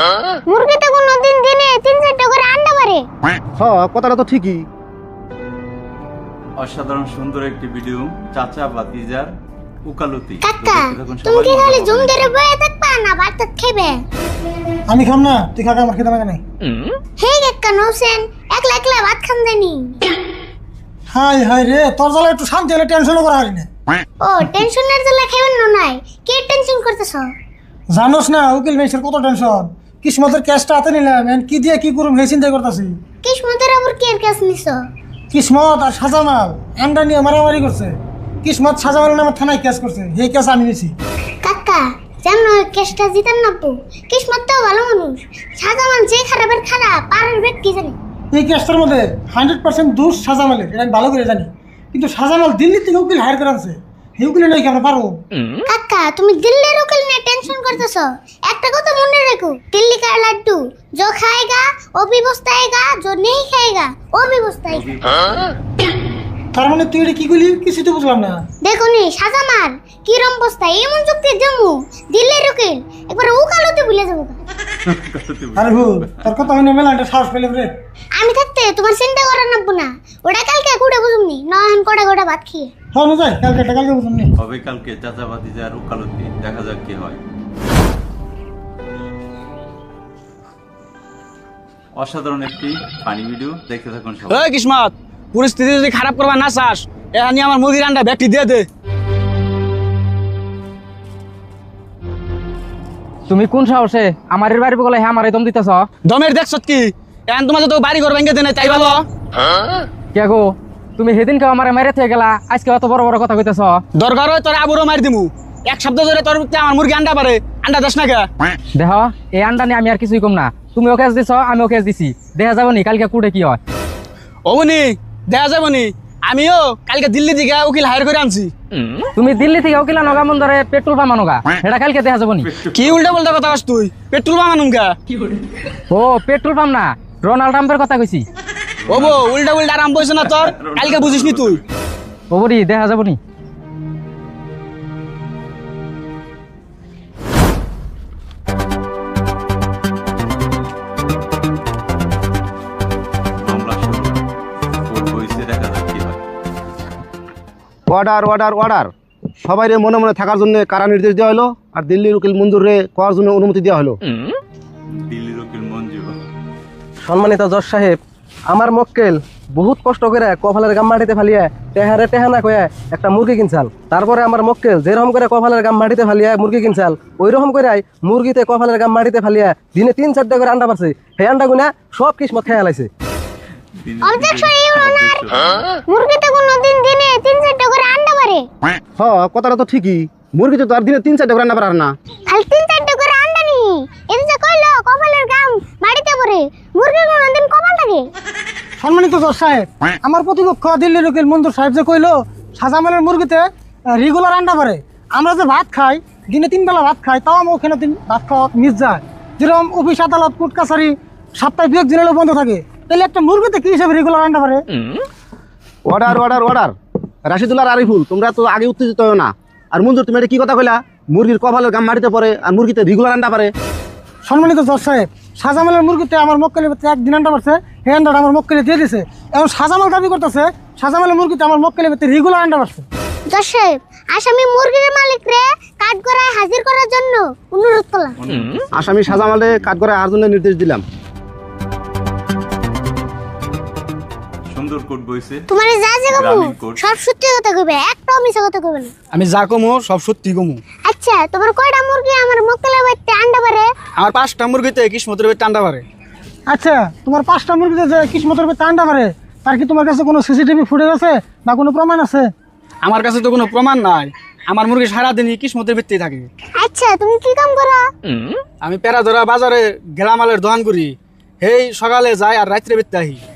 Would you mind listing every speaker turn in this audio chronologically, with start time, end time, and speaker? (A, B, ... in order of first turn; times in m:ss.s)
0:00.5-0:03.0 A
0:03.6-0:04.6 B
0:06.6-0:09.3 C
0:09.8-0:12.3 C
0:10.4-0:14.0 A
0:14.9-0:16.4 D
0:17.2-0:20.0 A
0:21.1-0:23.7 D
0:24.2-0:27.3 A
0:27.9-0:33.0 D
0:33.2-0:34.8 A
0:35.3-0:40.9 D
0:41.4-0:48.0 A
0:48.3-0:55.2 D
0:55.6-1:04.8 A
1:04.7-1:05.6 C
1:06.5-1:08.4 D
1:08.6-1:14.4 A
1:14.8-1:16.3 C
1:15.6-1:17.7 D
1:18.2-1:22.7 A
1:22.9-1:24.3 D
1:24.4-1:27.2 C
1:32.0-1:34.4 C
1:34.3-1:38.7 E
1:43.3-1:45.9 F
1:46.0-1:49.0 E
1:50.1-1:53.8 F
1:53.9-1:58.3 E
1:58.7-2:03.6 F
2:04.4-2:08.5 E
2:09.2-2:12.5 F
2:12.4-2:13.2 C
2:12.7-2:15.0 E
2:15.9-2:18.2 F
2:18.8-2:19.6 C
2:18.9-2:21.6 E
2:20.1-2:21.6 C
2:22.3-2:23.2 F
2:33.4-2:34.2 C
2:34.9-2:36.2 C
2:37.9-2:38.9 B
2:39.4-2:44.0 B
2:45.0-2:46.2 C
2:47.0-2:48.0 G
2:48.5-3:02.9 G
3:03.8-3:05.7 C
3:04.0-3:05.2 A
3:05.9-3:08.4 A
3:09.0-3:11.9 B
3:12.3-3:18.1 A
3:18.8-3:34.6 D
3:35.8-3:36.7 B
3:37.3-3:43.5 B
3:44.2-3:52.8 D
3:53.3-3:58.2 A
3:58.2-3:59.7 C
3:58.8-4:00.8 B
4:04.5-4:05.4 C
4:05.5-4:08.9 A
4:06.1-4:06.8 C
4:09.1-4:10.6 E
4:10.9-4:13.7 A
4:14.0-4:15.8 E
4:16.5-4:22.3 D
4:22.8-4:26.3 E
4:26.6-4:27.9 A
4:28.6-4:33.2 E